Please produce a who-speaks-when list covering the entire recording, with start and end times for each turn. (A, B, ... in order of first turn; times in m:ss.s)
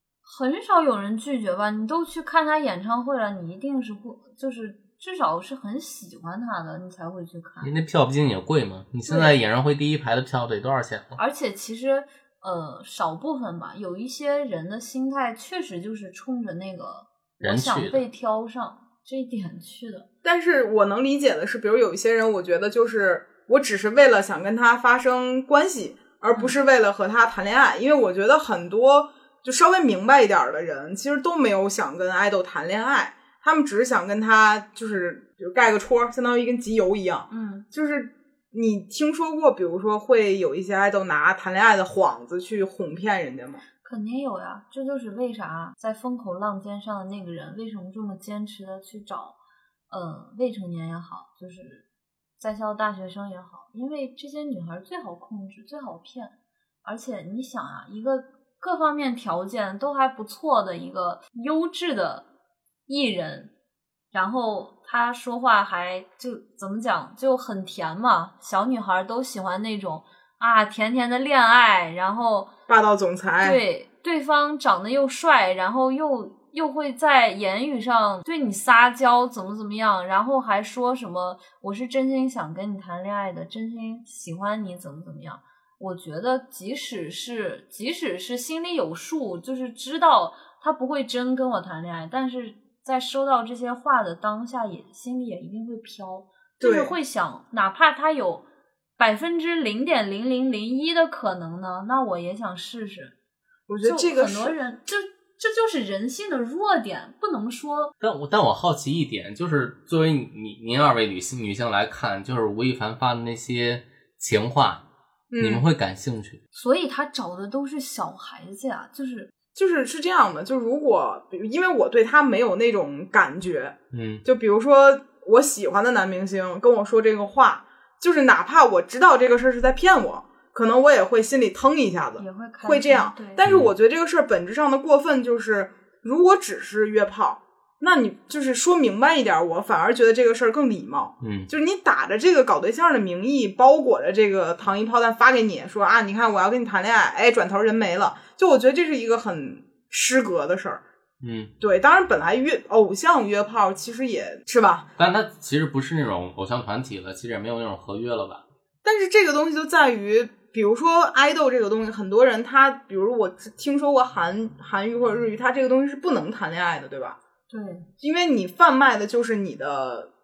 0:00.2-0:07.7 A
0:07.6-0:11.2 B
0:09.1-0:09.3 C
0:11.2-0:20.1 A
0:17.4-0:18.0 B
0:20.2-0:43.6 C
0:37.3-0:37.7 A
0:43.8-0:49.4 A
0:49.9-0:51.9 A
0:52.4-1:02.3 A
1:02.9-1:03.5 A
1:04.1-1:12.5 A
1:12.7-1:13.6 C
1:13.4-1:38.4 A
1:36.6-1:37.0 C
1:39.0-1:43.2 A
1:43.7-1:44.5 C
1:43.8-1:47.9 A
1:48.0-1:54.8 B
1:55.3-1:55.6 C
1:55.4-1:56.4 B
1:56.5-1:59.3 A
1:59.6-2:30.8 C
2:03.9-2:04.2 B
2:12.2-2:13.4 A
2:13.4-2:13.7 B
2:21.2-2:21.5 B
2:31.2-2:31.5 B
2:31.6-2:34.9 C
2:35.0-2:38.4 B
2:38.8-2:47.2 C
2:47.5-2:47.9 A
2:48.0-2:50.1 C